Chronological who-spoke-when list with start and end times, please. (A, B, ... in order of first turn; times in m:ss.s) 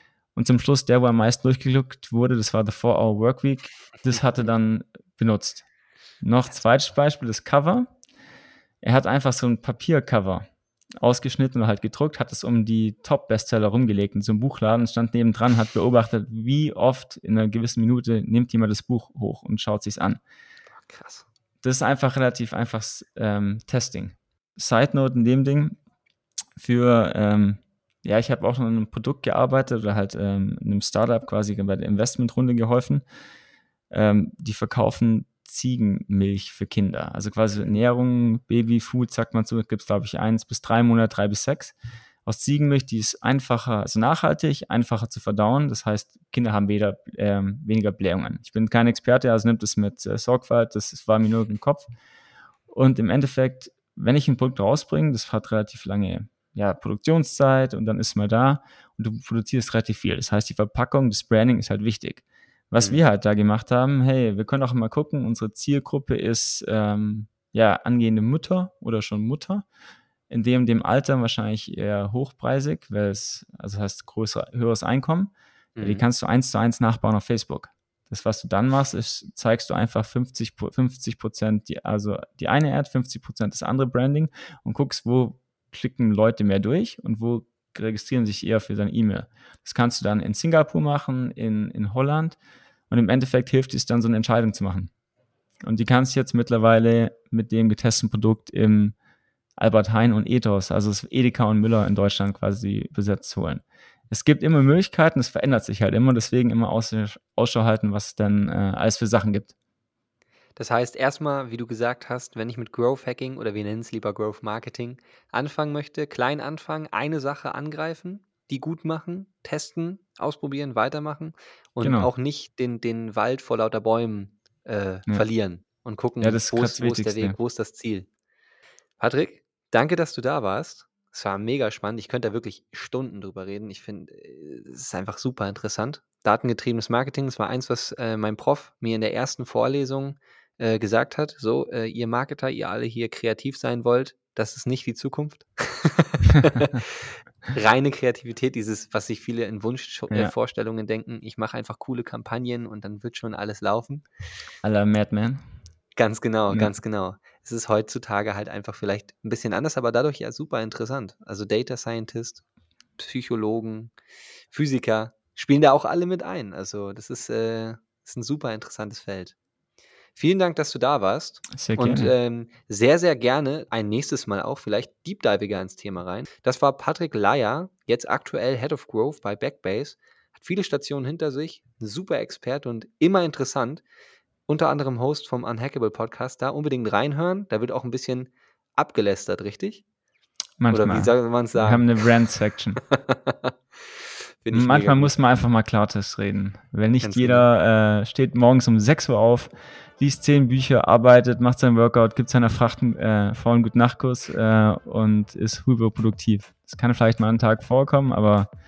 0:00.4-0:05.7 A
0:06.2-0:07.9 A
0:08.8-0:10.5 A
0:11.0-0:20.2 A
0:20.8-0:21.2 B
0:21.6-0:25.8 A
0:26.6-0:33.0 A
0:33.9-0:41.8 A
0:42.3-0:51.9 A
0:52.7-1:09.7 A
1:10.3-1:32.4 A
1:15.8-1:16.0 B
1:32.9-1:34.9 A
1:35.6-1:39.0 A
1:39.6-1:49.5 A
1:50.6-2:08.1 B
2:01.8-2:02.1 A
2:06.2-2:07.4 A
2:09.0-2:34.1 B
2:34.6-2:35.4 A
2:36.0-2:42.4 B
2:43.0-2:43.9 B
2:44.5-2:49.4 B
2:50.2-3:03.8 B
2:51.5-2:52.1 A
3:04.5-3:09.8 B
3:10.6-3:12.8 A
3:10.7-3:11.9 B
3:12.9-3:15.1 B
3:14.5-3:28.5 A
3:17.0-3:17.4 B